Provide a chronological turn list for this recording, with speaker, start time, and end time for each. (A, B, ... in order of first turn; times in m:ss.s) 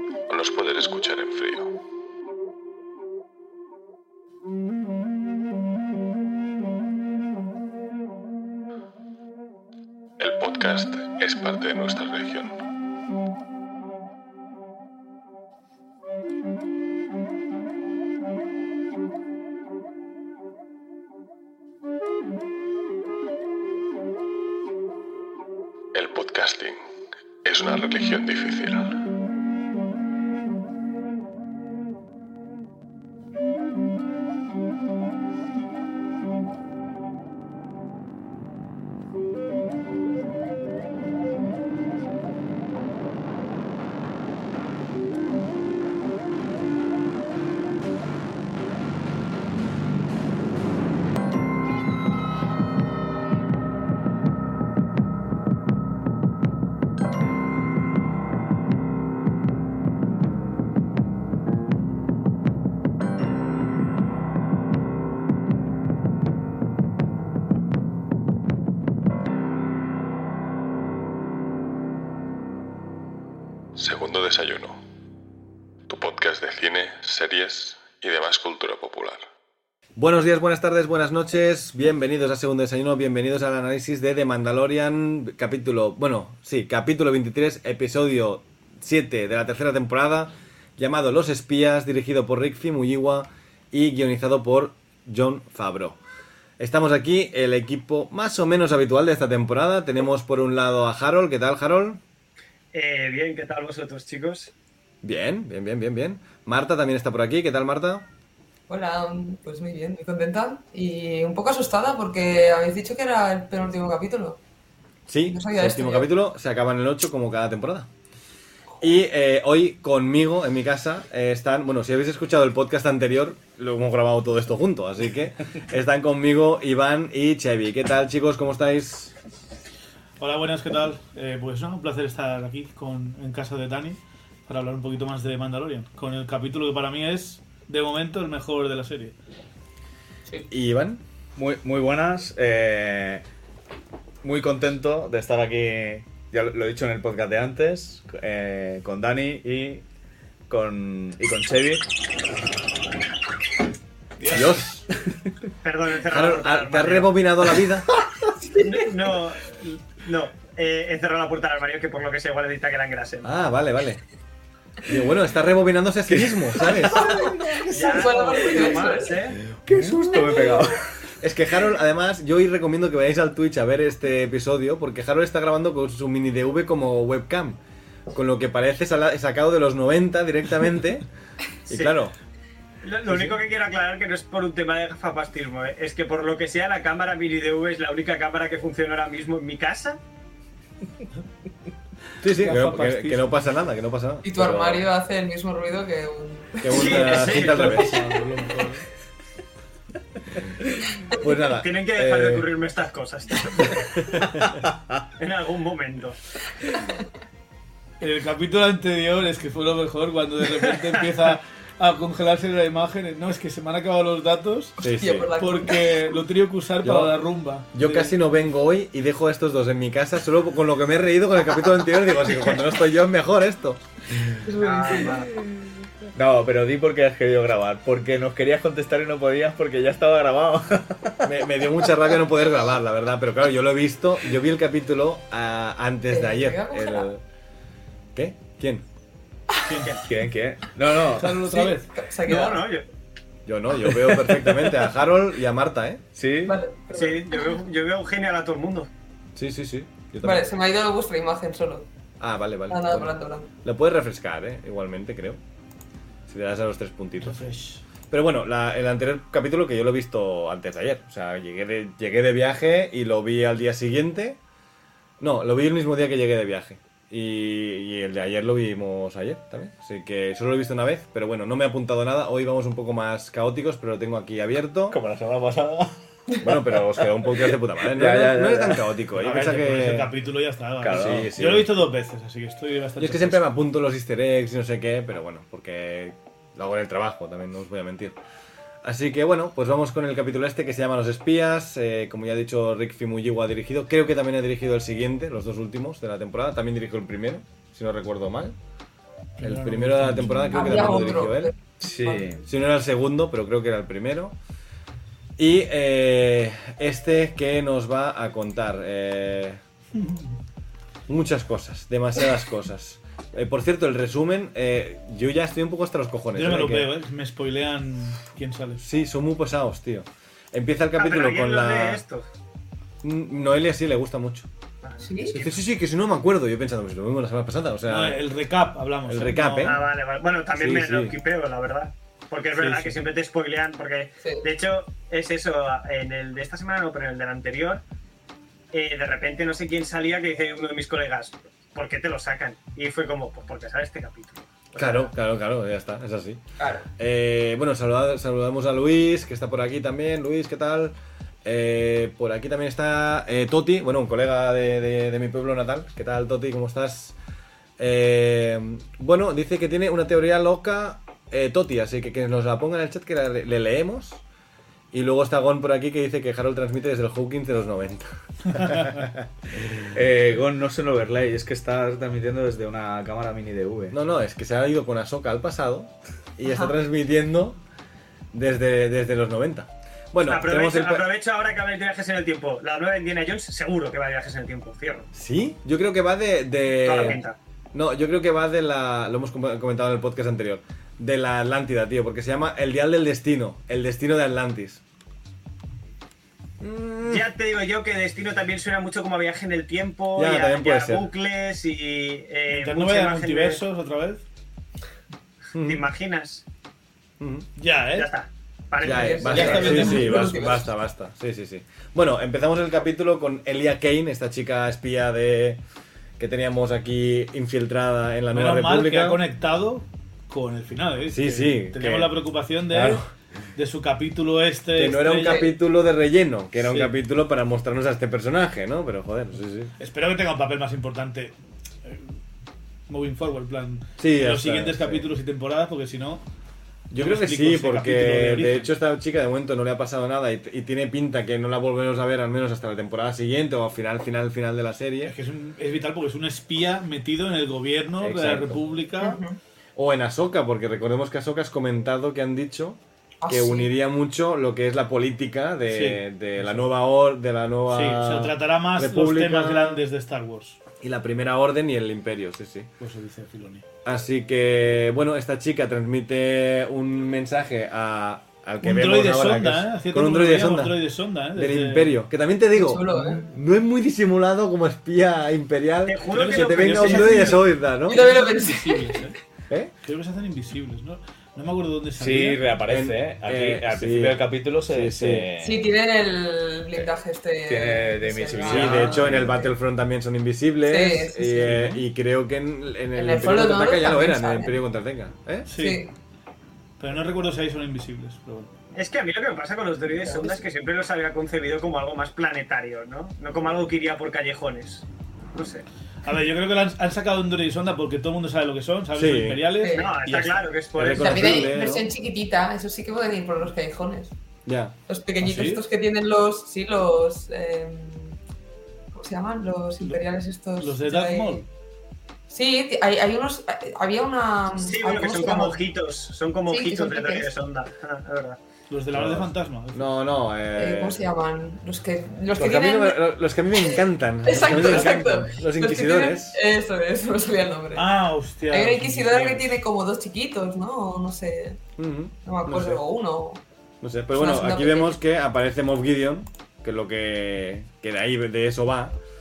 0:00.3-0:01.7 A
0:10.2-0:12.5 A
0:25.9-0:26.8 A
0:27.4-0:29.0 A
1:13.8-1:14.8 A
1:15.9-1:19.2 A
1:20.0-1:36.0 B
1:36.6-1:42.0 B
1:42.7-1:44.5 C
1:45.0-1:48.1 B
1:48.7-1:54.4 D
1:55.1-1:57.9 B
1:55.3-1:56.1 D
1:58.8-2:09.1 B
2:10.2-2:19.1 E
2:20.5-2:21.0 B
2:21.4-2:23.2 F
2:24.2-2:29.8 F
2:30.5-2:31.8 F
2:34.2-2:34.6 E
2:34.2-2:34.8 B
2:35.6-2:37.2 C
2:36.1-2:37.9 B
2:38.4-2:38.9 D
2:38.6-2:43.3 C
2:43.2-2:44.0 B
2:44.8-2:47.3 B
2:46.1-2:48.0 F
2:47.1-2:49.4 D
2:47.7-2:49.4 C
2:49.5-2:50.8 F
2:49.7-2:50.0 B
2:50.2-2:50.6 D
2:51.2-2:57.6 B
2:58.1-3:01.1 B
3:01.7-3:02.1 B
3:01.7-3:02.0 C
3:02.8-3:10.0 C
3:12.2-3:14.9 B
3:12.3-3:13.3 E
3:14.2-3:17.4 D
3:16.6-3:18.0 B
3:16.7-3:17.9 C
3:17.3-3:18.8 E
3:21.1-3:22.4 B
3:21.6-3:23.9 C
3:24.0-3:24.5 B
3:25.2-3:26.2 C
3:28.0-3:34.8 E
3:34.8-3:35.3 B
3:34.8-3:36.2 D
3:35.4-3:38.2 E
3:36.8-3:37.1 B
3:37.7-3:44.2 B
3:44.4-3:45.8 D
3:44.6-3:45.3 C
3:46.1-3:51.3 F
3:51.2-3:57.2 B
3:56.1-3:57.1 D
3:58.1-3:58.8 B
3:59.6-4:00.0 E
4:00.0-4:01.4 F
4:01.1-4:01.9 E
4:01.4-4:02.6 D
4:02.2-4:02.8 C
4:03.4-4:06.0 B
4:06.2-4:06.6 F
4:06.4-4:07.6 D
4:06.9-4:08.9 C
4:09.4-4:10.5 B
4:10.2-4:11.9 D
4:12.2-4:13.1 B
4:12.7-4:13.5 D
4:13.6-4:15.4 B
4:16.3-4:17.4 B
4:17.2-4:17.8 E
4:18.1-4:24.4 B
4:25.2-4:35.0 B
4:34.9-4:39.0 F
4:36.4-4:40.1 B
4:39.1-4:43.4 E
4:40.8-4:41.5 F
4:40.9-4:41.7 B
4:43.0-4:48.2 B
4:48.8-4:58.6 B
4:59.4-5:01.1 E
4:59.4-5:01.5 B
5:00.4-5:02.2 D
5:01.8-5:02.4 F
5:02.4-5:04.3 B
5:05.4-5:09.6 B
5:09.9-5:10.4 E
5:11.1-5:16.9 B
5:16.3-5:18.8 E
5:18.8-5:22.0 B
5:21.0-5:22.2 C
5:23.0-5:24.5 B
5:24.8-5:25.4 C
5:25.0-5:25.4 D
5:25.3-5:28.2 B
5:27.9-5:29.8 E
5:29.1-5:29.8 B
5:29.6-5:37.8 C
5:30.5-5:31.1 B
5:32.5-5:32.9 E
5:38.7-5:45.1 C
5:44.8-5:46.4 B
5:46.6-5:46.9 D
5:47.0-5:57.2 B
5:57.8-6:04.2 B
6:04.9-6:09.3 B
6:09.8-6:14.0 F
6:13.9-6:17.6 B
6:16.4-6:16.7 D
6:18.3-6:21.0 B
6:20.2-6:25.1 C
6:25.1-6:27.2 B
6:26.8-6:27.4 C
6:27.7-6:34.8 B
6:36.6-6:37.3 B
6:37.0-6:43.6 C
6:40.2-6:41.1 B
6:42.5-6:44.2 E
6:45.5-6:45.8 B
6:45.6-6:46.4 C
6:47.2-6:47.5 B
6:47.6-6:48.1 E
6:47.9-6:49.9 C
6:48.8-6:55.6 B
6:48.8-6:50.7 D
6:49.3-6:50.4 E
6:56.2-6:59.2 B
6:58.3-7:03.0 E
7:01.1-7:02.1 B
7:02.7-7:03.0 B
7:03.6-7:05.5 E
7:04.8-7:09.7 B
7:06.6-7:06.9 E
7:09.8-7:12.1 E
7:12.9-7:16.2 E
7:14.0-7:15.1 B
7:16.9-7:25.1 B
7:16.9-7:18.7 E
7:25.0-7:29.2 E
7:28.0-7:28.6 B
7:29.0-7:29.4 D
7:29.8-7:39.8 B
7:33.2-7:33.7 D
7:35.7-7:36.6 E
7:37.7-7:40.6 E
7:40.8-7:42.7 B
7:42.8-7:43.6 E
7:43.8-7:50.8 B
7:48.6-7:52.0 E
7:51.3-7:58.0 B
7:52.5-7:53.2 D
7:55.9-7:57.4 C
7:56.1-7:59.1 E
7:57.9-7:59.1 D
7:59.8-8:02.4 E
8:02.0-8:05.7 F
8:02.6-8:05.3 B
8:05.4-8:09.5 D
8:07.5-8:09.4 F
8:08.4-8:15.5 B
8:10.7-8:11.8 D
8:11.4-8:11.7 E
8:12.9-8:14.6 D
8:15.5-8:15.8 E
8:15.5-8:15.9 D
8:16.8-8:18.5 E
8:18.7-8:25.6 C
8:26.0-8:30.5 E
8:28.9-8:29.4 B
8:29.6-8:29.9 D
8:29.7-8:31.5 C
8:30.7-8:31.9 B
8:30.9-8:34.1 D
8:34.4-8:34.7 B
8:34.9-8:38.2 D
8:35.2-8:35.6 E
8:38.9-8:41.4 D
8:40.6-8:41.4 E
8:42.3-8:45.6 D
8:44.6-8:48.4 C
8:46.5-8:47.3 D
8:48.7-8:49.8 E
8:48.9-8:51.0 B
8:50.5-8:57.9 D
8:52.3-8:56.4 B
8:57.7-8:59.6 E
8:58.5-9:01.6 D
9:01.8-9:02.8 B
9:02.2-9:03.4 D
9:03.8-9:08.9 B
9:04.1-9:05.0 D